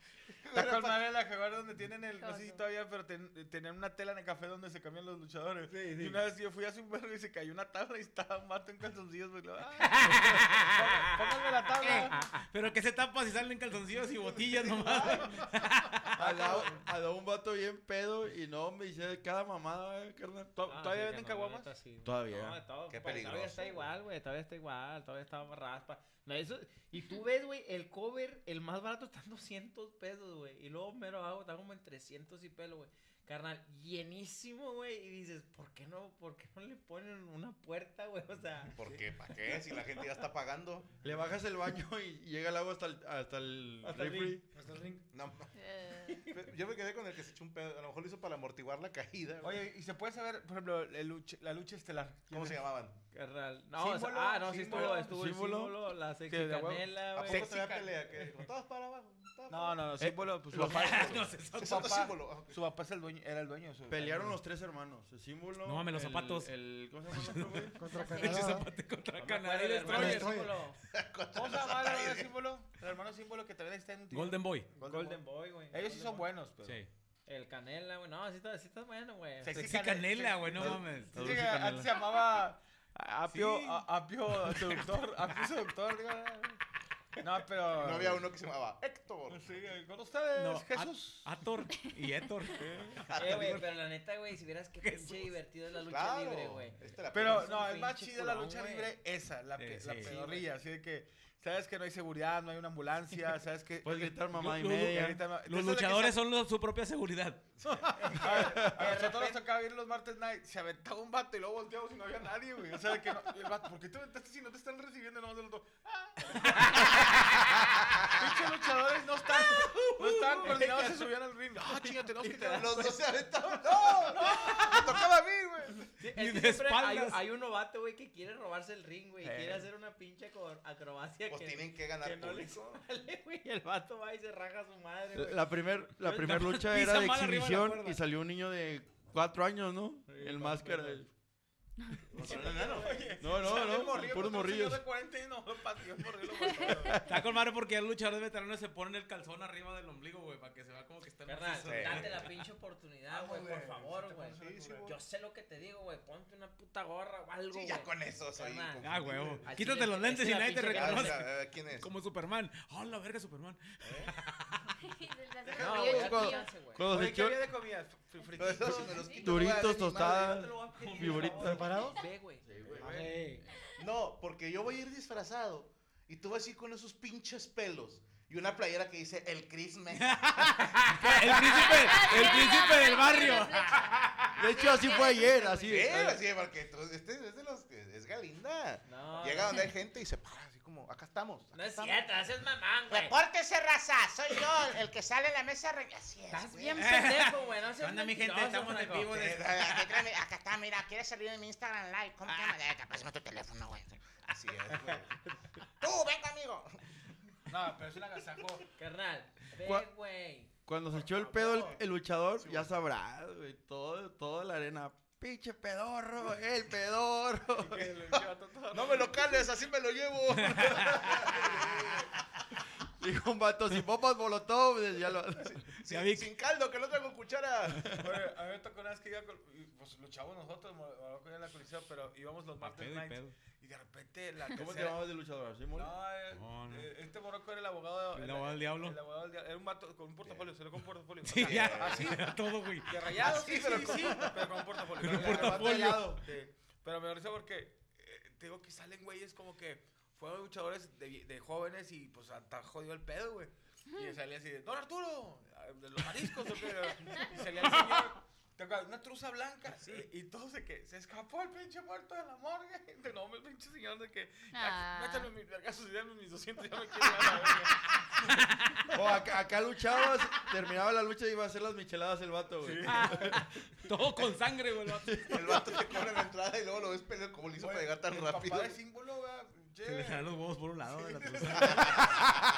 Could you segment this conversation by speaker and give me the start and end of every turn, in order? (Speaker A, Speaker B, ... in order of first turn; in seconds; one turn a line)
Speaker A: 0.4-12.1
Speaker B: 0.5-1.1
Speaker C: 2.2-2.6
Speaker D: 5.7-6.2
Speaker D: 9.8-11.0
Speaker D: 11.8-12.4
Speaker E: 12.5-16.5
Speaker B: 14.0-15.4
Speaker F: 16.2-20.5
Speaker A: 20.5-21.7
Speaker D: 20.7-38.8
Speaker F: 22.0-22.6
Speaker B: 22.9-23.9
Speaker B: 38.8-40.9
Speaker F: 41.0-44.4
Speaker A: 43.8-44.4
Speaker G: 44.5-45.1
Speaker B: 45.1-45.5
Speaker C: 45.5-46.2
Speaker B: 46.3-49.7
Speaker A: 49.4-52.6
Speaker B: 52.3-53.0
Speaker D: 53.1-57.5
Speaker A: 53.7-55.1
Speaker F: 55.0-55.8
Speaker A: 56.3-58.5
Speaker B: 57.2-62.6
Speaker A: 59.5-64.4
Speaker F: 60.0-60.9
Speaker E: 60.5-61.9
Speaker F: 63.9-67.8
Speaker E: 65.6-66.5
Speaker E: 67.1-70.3
Speaker G: 67.7-68.7
Speaker C: 67.9-68.3
Speaker D: 69.2-70.8
Speaker G: 69.8-70.5
Speaker B: 70.9-72.3
Speaker A: 71.3-76.8
Speaker E: 74.1-74.7
Speaker D: 74.8-76.3
Speaker E: 76.6-76.9
Speaker D: 77.3-79.6
Speaker A: 79.4-86.6
Speaker E: 79.6-81.4
Speaker F: 80.6-81.9
Speaker E: 83.3-83.8
Speaker E: 84.5-84.8
Speaker A: 87.2-88.3
Speaker B: 87.7-89.6
Speaker A: 89.3-91.4
Speaker E: 90.3-93.7
Speaker A: 92.6-93.0
Speaker B: 93.0-93.6
Speaker D: 93.2-98.9
Speaker E: 94.8-95.3
Speaker B: 95.8-97.8
Speaker A: 97.1-106.2
Speaker E: 99.6-100.1
Speaker D: 100.0-100.5
Speaker F: 103.8-105.2
Speaker E: 104.3-107.5
Speaker A: 107.6-117.3
Speaker F: 108.4-108.9
Speaker D: 108.8-109.4
Speaker A: 118.1-123.1
Speaker D: 119.5-121.0
Speaker B: 122.2-125.9
Speaker A: 123.6-125.0
Speaker D: 124.2-124.8
Speaker D: 126.0-136.3
Speaker E: 126.1-127.2
Speaker A: 129.2-129.7
Speaker B: 131.3-132.8
Speaker F: 135.1-141.1
Speaker E: 136.1-138.0
Speaker D: 140.1-141.0
Speaker A: 140.3-140.9
Speaker B: 142.1-143.1
Speaker D: 142.2-143.8
Speaker A: 142.2-147.0
Speaker F: 143.2-144.8
Speaker C: 146.4-146.8
Speaker E: 147.0-152.4
Speaker D: 151.2-158.8
Speaker B: 151.7-152.2
Speaker A: 153.1-154.9
Speaker B: 154.4-154.9
Speaker B: 157.5-159.7
Speaker E: 158.8-164.7
Speaker D: 159.4-161.2
Speaker B: 160.6-161.9
Speaker B: 163.8-164.1
Speaker C: 164.8-166.6
Speaker A: 165.5-166.0
Speaker D: 165.6-166.9
Speaker F: 165.7-167.5
Speaker A: 166.8-171.8
Speaker B: 168.3-170.5
Speaker C: 168.9-169.4
Speaker F: 169.2-171.7
Speaker D: 170.8-172.4
Speaker G: 171.4-172.0
Speaker F: 172.4-173.2
Speaker A: 172.7-173.3
Speaker G: 172.8-173.4
Speaker C: 173.5-173.8
Speaker B: 173.8-180.7
Speaker E: 179.9-184.4
Speaker C: 181.2-185.9
Speaker F: 184.4-186.2
Speaker B: 185.7-192.1
Speaker D: 188.9-189.7
Speaker D: 191.5-193.2
Speaker B: 192.9-197.0
Speaker D: 196.3-199.2
Speaker E: 196.8-200.0
Speaker B: 199.1-205.2
Speaker B: 205.8-206.8
Speaker A: 207.5-208.6
Speaker D: 208.8-210.5
Speaker F: 209.6-209.9
Speaker F: 210.6-217.9
Speaker D: 211.2-211.8
Speaker A: 211.4-211.7
Speaker B: 212.4-212.7
Speaker A: 217.6-219.4
Speaker B: 218.7-222.1
Speaker E: 220.4-220.9
Speaker A: 221.1-221.7
Speaker F: 223.0-225.6
Speaker B: 225.3-228.0
Speaker E: 225.8-226.3
Speaker A: 228.0-235.0
Speaker E: 232.6-233.3
Speaker F: 234.5-235.9
Speaker A: 235.7-242.3
Speaker E: 236.3-236.9
Speaker E: 238.1-239.0
Speaker B: 240.2-240.5
Speaker E: 241.2-243.1
Speaker B: 241.3-242.2
Speaker A: 242.8-268.3
Speaker B: 243.1-244.6
Speaker E: 245.0-246.2
Speaker F: 245.3-246.2
Speaker C: 253.9-254.2
Speaker C: 264.5-265.3
Speaker E: 268.3-268.8
Speaker F: 268.9-273.4
Speaker A: 272.6-273.4
Speaker E: 273.9-275.4
Speaker F: 275.0-275.6
Speaker B: 275.3-278.8
Speaker A: 277.6-282.4
Speaker E: 279.8-282.2
Speaker B: 281.6-282.4